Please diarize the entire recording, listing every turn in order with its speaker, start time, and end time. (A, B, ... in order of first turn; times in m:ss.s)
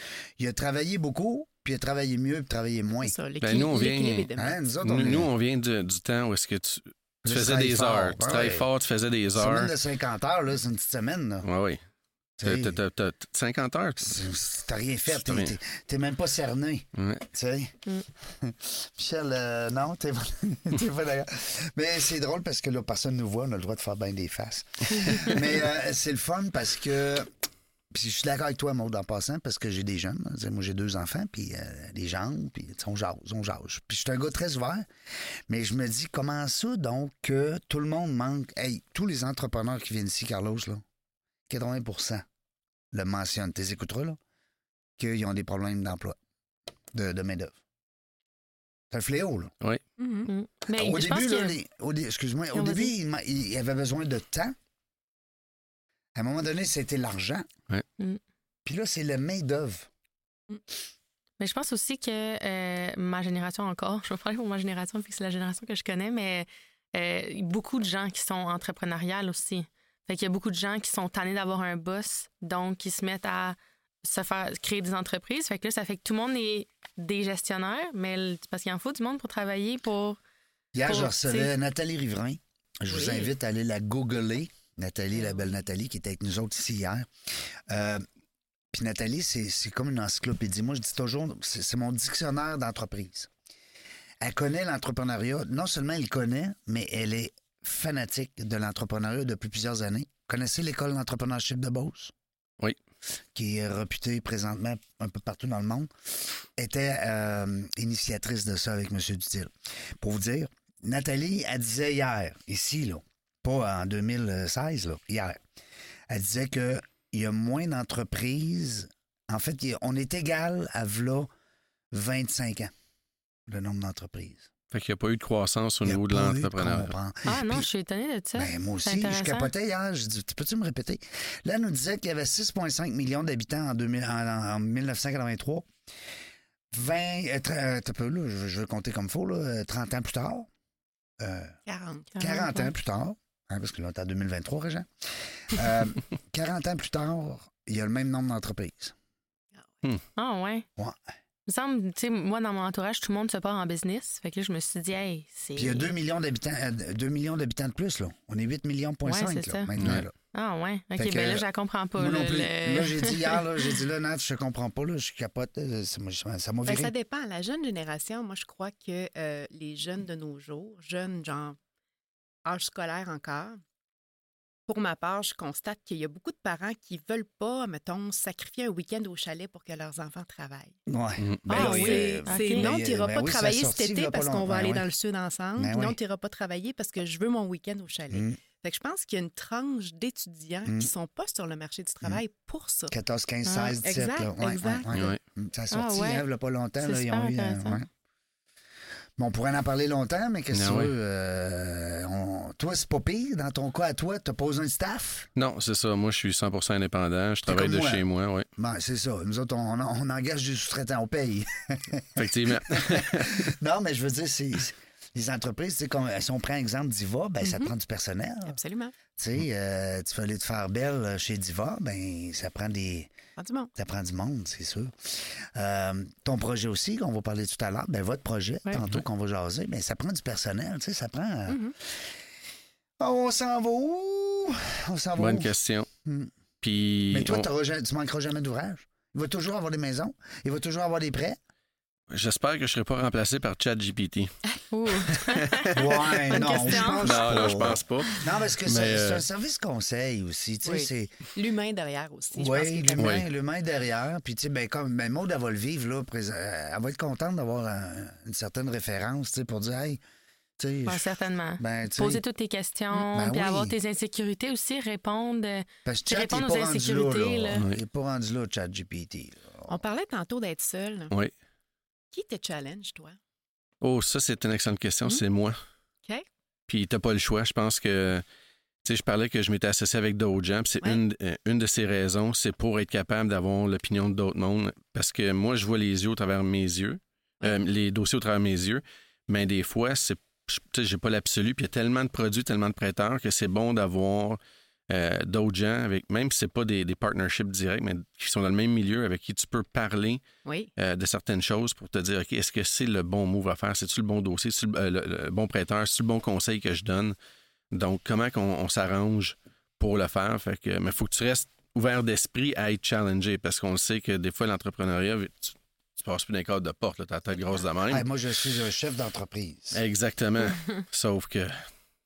0:00.4-0:03.2 A
0:03.0-0:04.6 B
0:03.4-0:04.3 C
0:04.4-0:05.3 A
0:04.8-0:09.7 C
0:07.2-0:08.7 A
0:09.4-0:11.5 A
0:11.4-0:11.8 C
0:12.4-0:12.8 A
0:12.4-0:14.2 C
0:14.0-0:27.3 A
0:15.1-0:15.5 C
0:17.0-0:17.2 C
0:27.9-0:34.9 A
0:35.5-0:40.8 A
0:41.5-0:42.2 A
0:42.9-0:44.2 A
0:45.0-0:46.2 A
0:46.9-0:47.6 A
0:48.9-0:49.5 A
0:50.0-0:50.3 B
0:50.3-0:51.6 D
0:50.7-0:54.6 A
0:52.5-0:52.9 D
0:56.2-0:57.5 A
0:58.7-0:59.9 A
1:01.4-1:20.2 D
1:20.7-1:27.1 A
1:20.8-1:21.5 D
1:22.9-1:23.3 B
1:27.7-1:28.0 A
1:28.7-1:33.3 A
1:34.2-1:42.1 A
1:43.4-1:55.4 A
1:56.1-2:01.3 A
2:01.9-2:02.7 A
2:03.5-2:04.5 A
2:04.7-2:06.9 C
2:05.8-2:07.7 A
2:07.2-2:09.5 D
2:08.4-2:15.7 A
2:16.7-2:20.5 A
2:21.2-2:21.6 A
2:21.7-2:22.4 B
2:22.2-2:22.7 D
2:22.2-2:28.9 A
2:29.5-2:29.8 B
2:30.2-2:30.7 D
2:31.5-2:35.9 D
2:35.6-2:40.1 A
2:39.0-2:39.7 D
2:39.8-2:40.1 C
2:40.3-2:43.4 D
2:41.0-2:46.9 A
2:46.7-2:51.6 B
2:52.4-2:53.6 B
2:54.7-3:00.8 B
3:00.9-3:04.9 A
3:01.2-3:01.4 C
3:01.5-3:12.9 B
3:01.5-3:02.7 D
3:05.6-3:06.0 A
3:08.1-3:08.4 A
3:10.6-3:10.9 A
3:12.9-3:17.9 A
3:13.4-3:13.8 D
3:13.8-3:14.9 B
3:14.9-3:15.2 C
3:15.7-3:16.3 D
3:16.8-3:17.8 D
3:19.2-3:25.3 A
3:20.5-3:20.9 C
3:25.4-3:28.5 C
3:27.5-3:28.0 A
3:28.6-3:38.6 A
3:32.2-3:33.6 C
3:37.4-3:37.7 B
3:38.5-3:39.0 B
3:39.2-3:43.1 A
3:43.4-3:43.7 B
3:43.8-3:52.1 A
3:51.5-3:51.8 B
3:53.0-3:55.5 A
3:55.2-3:55.9 C
3:56.0-3:56.3 A
3:56.6-3:57.5 C
3:57.1-4:01.4 A
4:02.1-4:04.4 C
4:04.7-4:08.2 D
4:05.1-4:05.9 C
4:05.7-4:11.2 A
4:06.7-4:08.1 C
4:08.6-4:09.2 C
4:10.6-4:13.2 B
4:12.3-4:20.0 A
4:13.0-4:13.3 C
4:20.6-4:21.1 A
4:20.8-4:27.6 D
4:21.6-4:22.2 A
4:23.1-4:23.8 A
4:25.8-4:29.8 A
4:27.5-4:27.8 C
4:29.7-4:31.1 B
4:32.1-4:33.2 B
4:33.8-4:35.6 C
4:36.7-4:38.2 C
4:38.8-5:00.2 C
5:00.4-5:00.7 B
5:00.8-5:07.2 C
5:07.7-5:18.1 C
5:17.9-5:19.8 A
5:19.7-5:21.6 C